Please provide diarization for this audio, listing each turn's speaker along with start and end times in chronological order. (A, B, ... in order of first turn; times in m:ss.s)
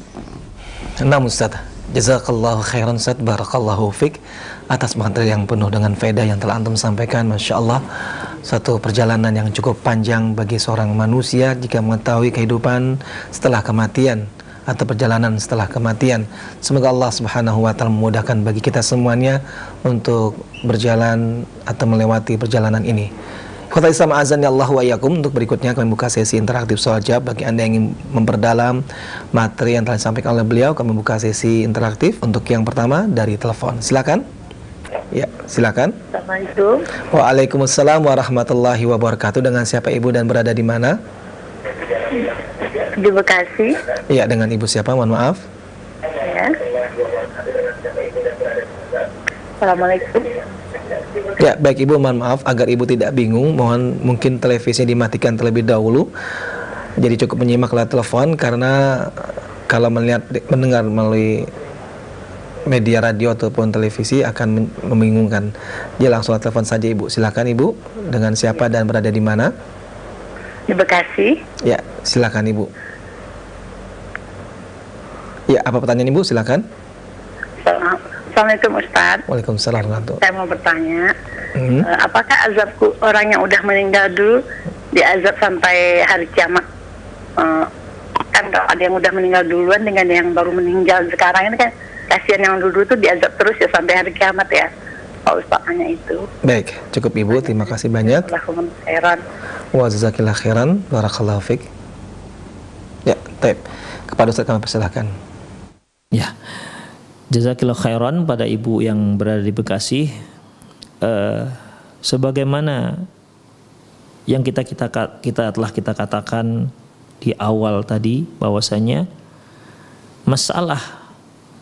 0:01.0-0:04.2 A
0:04.7-0:07.8 A
0:08.4-0:23.1 A
0:23.7-0:28.8 A
0:29.3-0:34.2 A
0:35.1-0:36.0 A
0:36.1-0:36.8 B
0:37.1-0:41.0 A
0:42.9-0:43.8 B
0:44.1-0:45.4 A
0:46.2-0:46.6 B
0:49.6-0:50.3 B
0:51.4-0:56.1 A
0:57.0-1:01.5 A
1:02.7-1:09.5 A
1:10.7-1:11.4 B
1:11.6-1:12.7 A
1:15.5-1:16.6 A
1:17.6-1:19.2 B
1:19.3-1:20.2 A
1:20.2-1:21.1 B
1:21.6-1:21.9 A
1:21.8-1:24.4 B
1:24.9-1:26.6 B
1:27.4-1:27.7 B
1:28.3-1:34.7 B
1:35.3-1:36.2 B
1:36.4-1:38.3 A
1:38.1-1:39.2 B
1:39.7-1:41.7 A
1:43.1-1:45.1 A
1:47.3-1:50.1 C
1:51.0-1:53.0 C
1:54.3-1:56.7 C
1:57.2-1:59.1 C
2:00.3-2:01.0 C